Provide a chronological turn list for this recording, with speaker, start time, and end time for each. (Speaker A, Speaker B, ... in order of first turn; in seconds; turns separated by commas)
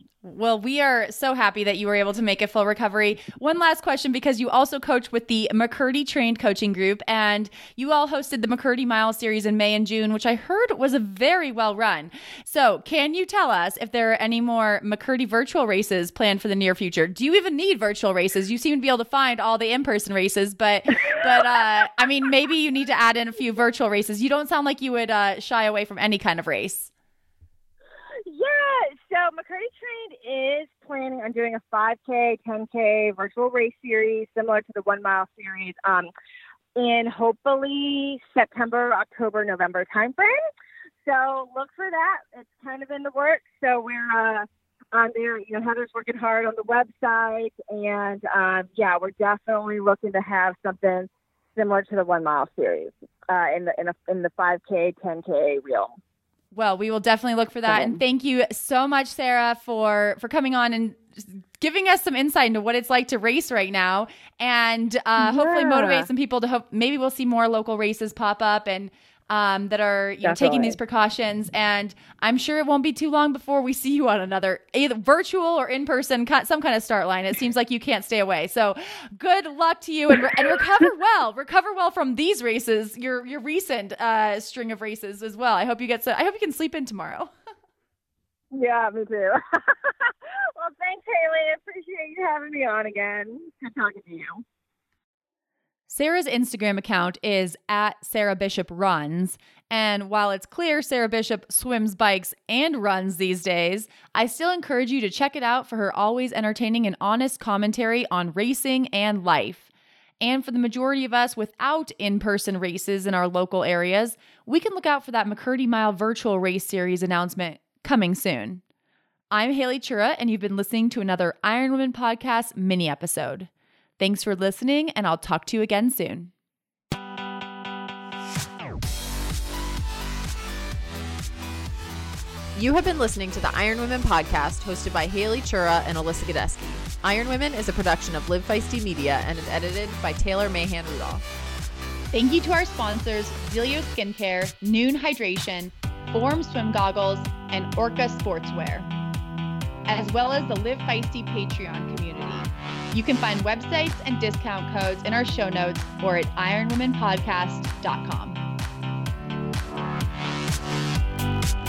Speaker A: 0.2-26.9, Speaker B: 28.3-36.1, Speaker B: 36.8-40.4, Speaker B: 41.0-56.0, Speaker A: 56.5-87.3, Speaker B: 57.7-58.0, Speaker B: 65.2-66.1, Speaker B: 70.2-70.8, Speaker B: 88.5-94.4, Speaker A: 95.9-109.7, Speaker A: 110.2-118.6, Speaker A: 119.3-126.3, Speaker C: 132.6-141.2, Speaker A: 142.1-148.9, Speaker A: 149.9-158.4